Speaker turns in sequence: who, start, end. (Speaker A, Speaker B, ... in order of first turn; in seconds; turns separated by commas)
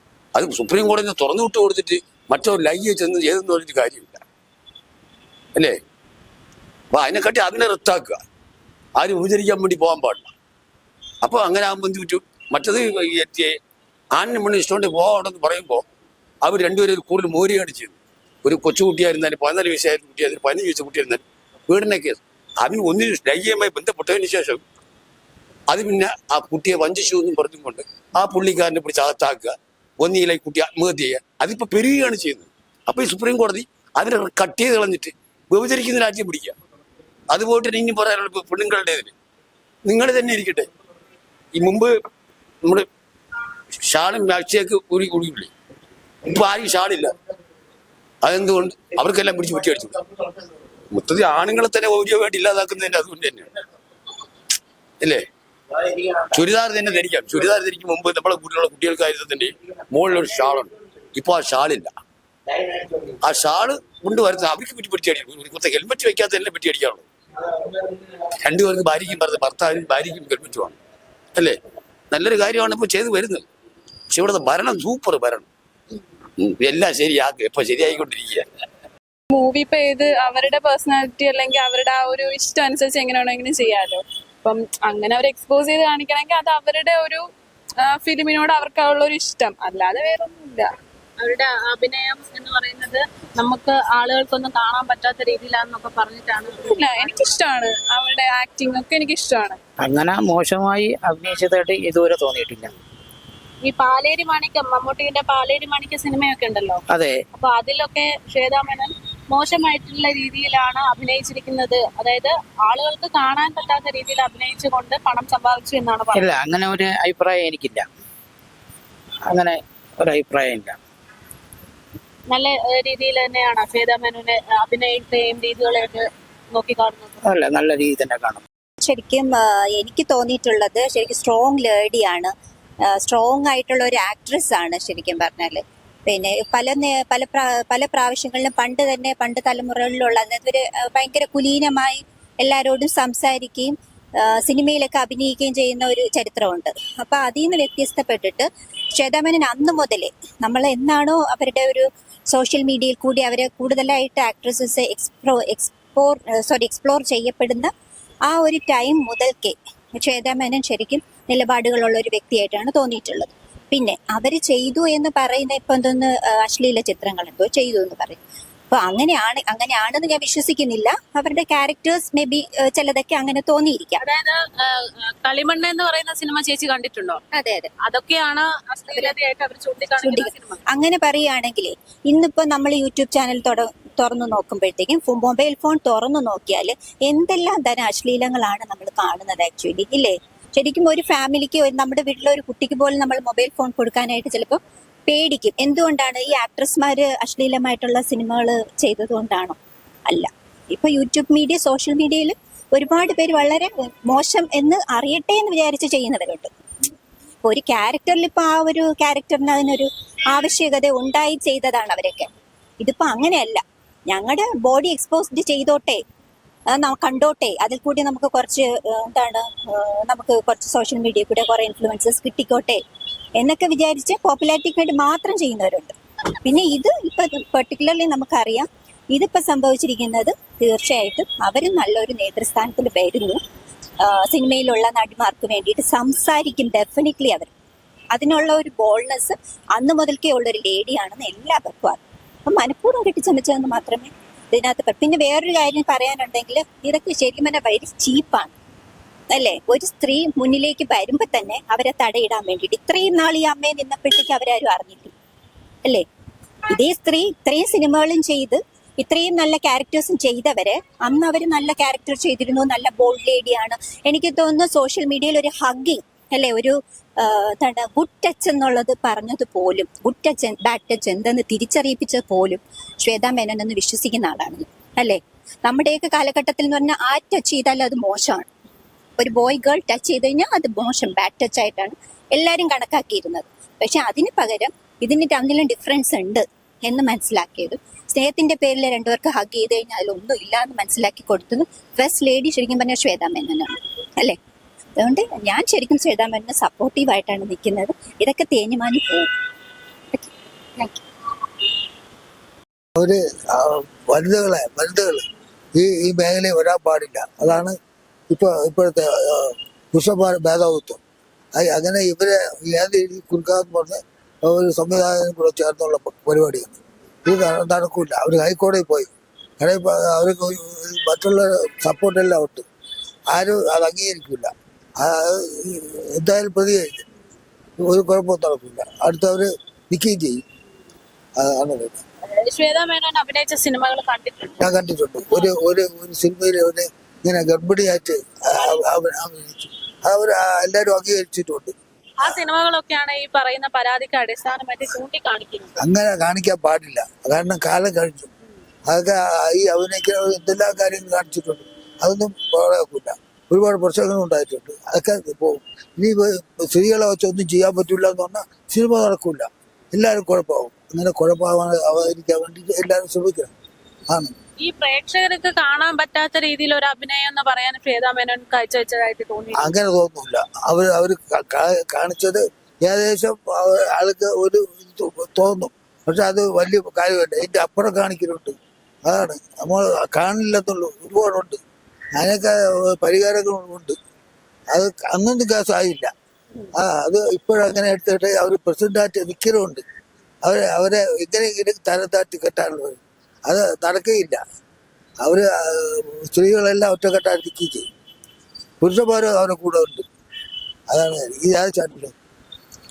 Speaker A: 0.4-4.2, Speaker A: 6.9-8.2, Speaker A: 9.0-10.3, Speaker A: 11.2-13.5, Speaker A: 14.2-15.8, Speaker A: 16.4-24.6, Speaker A: 25.7-36.6, Speaker A: 37.3-39.1, Speaker A: 39.9-40.7, Speaker A: 41.6-41.9, Speaker A: 43.9-45.5, Speaker A: 46.3-47.1, Speaker A: 48.2-50.0, Speaker A: 50.9-53.5, Speaker A: 56.3-61.9, Speaker A: 63.2-67.0, Speaker A: 68.4-70.8, Speaker A: 72.1-73.5, Speaker A: 74.1-75.5, Speaker A: 76.4-78.5, Speaker B: 79.3-87.2, Speaker B: 87.8-90.7, Speaker C: 91.2-97.4, Speaker B: 96.7-99.6, Speaker D: 99.8-102.7, Speaker C: 103.7-106.8, Speaker D: 106.9-107.2, Speaker C: 107.3-116.3, Speaker D: 116.1-117.9, Speaker D: 119.2-120.8, Speaker C: 122.3-127.2, Speaker D: 127.2-128.4, Speaker E: 128.8-132.3, Speaker E: 132.9-157.7, Speaker E: 158.3-168.2, Speaker E: 168.7-174.0, Speaker C: 174.0-177.2, Speaker E: 177.4-177.7, Speaker C: 177.8-180.6, Speaker E: 180.0-206.5, Speaker E: 207.4-212.3, Speaker E: 212.8-216.0, Speaker E: 216.7-222.8, Speaker E: 223.4-233.4, Speaker E: 234.0-237.5, Speaker E: 238.1-248.5, Speaker E: 249.3-255.1, Speaker E: 256.7-278.5, Speaker E: 279.2-294.4, Speaker E: 295.0-299.2, Speaker E: 300.1-301.0, Speaker F: 303.0-305.2, Speaker F: 305.8-307.8, Speaker F: 308.3-311.0, Speaker F: 311.6-316.8, Speaker F: 317.3-322.6, Speaker F: 323.3-327.0, Speaker F: 327.8-330.4, Speaker F: 331.4-332.0, Speaker C: 332.5-334.6, Speaker F: 334.6-341.7, Speaker C: 342.2-345.8, Speaker F: 345.8-348.3, Speaker F: 348.9-363.5, Speaker C: 364.6-369.7, Speaker F: 369.6-378.6, Speaker F: 379.1-381.6, Speaker F: 382.2-384.0, Speaker F: 384.7-386.1, Speaker F: 386.8-389.8, Speaker F: 390.4-394.4, Speaker F: 395.2-397.9, Speaker F: 398.8-400.0, Speaker F: 400.9-402.1